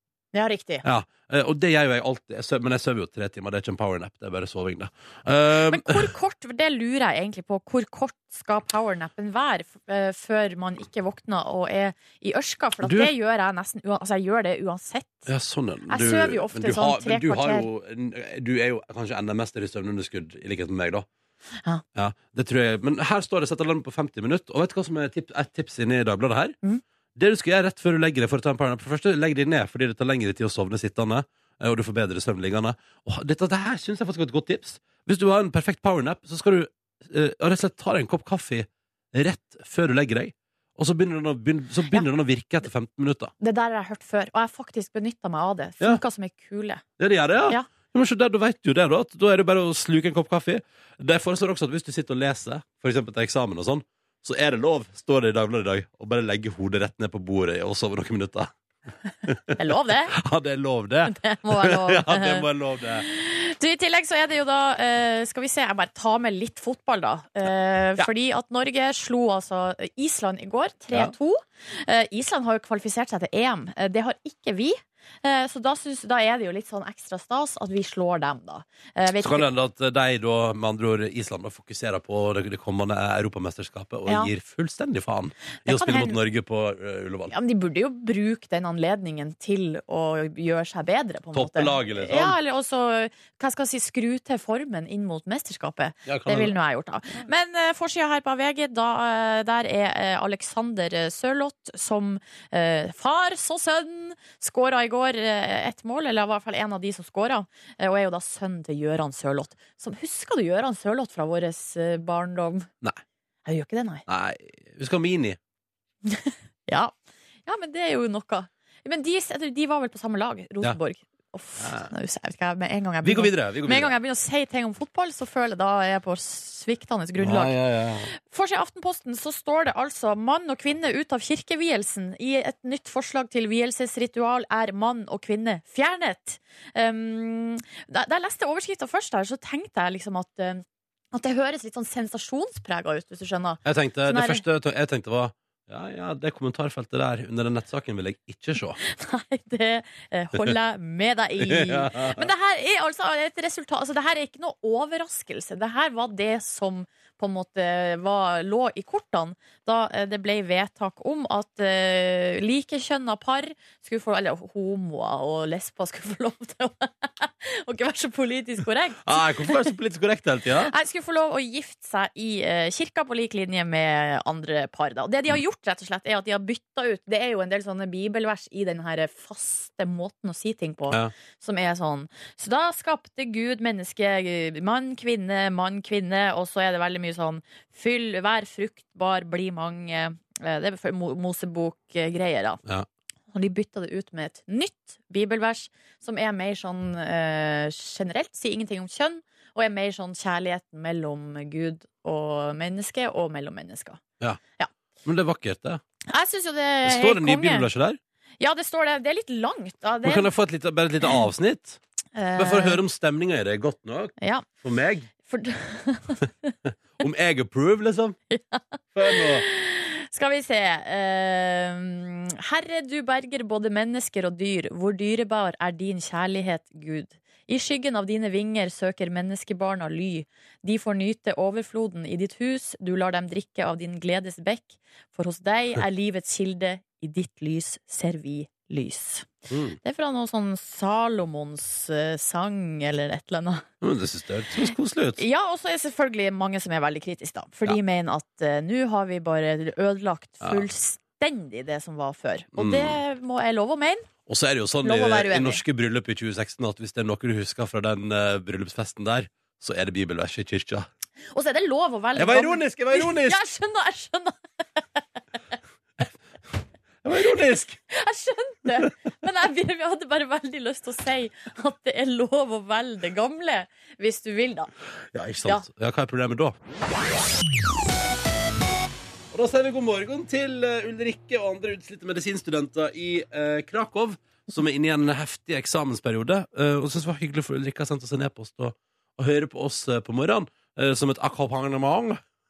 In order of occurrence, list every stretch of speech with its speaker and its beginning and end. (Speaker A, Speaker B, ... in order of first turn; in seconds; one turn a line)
Speaker A: 0.3-0.8
Speaker B: 0.8-6.1
Speaker A: 5.7-15.3
Speaker B: 12.8-13.1
Speaker B: 15.3-21.1
Speaker A: 15.9-17.7
Speaker B: 21.9-26.6
Speaker B: 27.2-43.3
Speaker A: 43.4-46.8
Speaker B: 47.0-58.5
Speaker B: 59.3-63.1
Speaker A: 59.6-60.1
Speaker A: 61.1-62.5
Speaker A: 63.0-79.5
Speaker B: 79.2-87.3
Speaker A: 85.7-86.2
Speaker A: 87.3-112.7
Speaker B: 91.3-92.4
Speaker B: 96.1-96.5
Speaker A: 113.5-114.1
Speaker B: 114.1-115.4
Speaker A: 116.1-116.9
Speaker A: 117.5-127.6
Speaker B: 121.6-121.9
Speaker B: 123.0-123.9
Speaker B: 127.2-128.1
Speaker A: 128.1-144.4
Speaker B: 143.7-148.8
Speaker A: 148.8-169.7
Speaker B: 151.4-152.3
Speaker B: 169.0-170.7
Speaker A: 170.7-192.6
Speaker A: 193.3-204.0
Speaker B: 205.0-205.8
Speaker A: 206.1-207.7
Speaker B: 206.8-208.0
Speaker A: 208.4-210.3
Speaker B: 210.0-211.8
Speaker A: 212.2-212.8
Speaker B: 212.4-215.1
Speaker A: 214.2-214.5
Speaker A: 215.2-216.5
Speaker B: 216.7-218.2
Speaker A: 218.3-239.3
Speaker B: 218.9-219.4
Speaker B: 239.5-239.8
Speaker A: 239.8-243.7
Speaker B: 243.8-245.2
Speaker A: 245.2-254.1
Speaker B: 252.6-253.0
Speaker B: 254.3-260.9
Speaker A: 254.8-255.6
Speaker A: 261.3-265.0
Speaker B: 262.1-263.4
Speaker B: 267.0-267.8
Speaker A: 267.9-274.7
Speaker B: 275.1-276.6
Speaker B: 279.3-292.2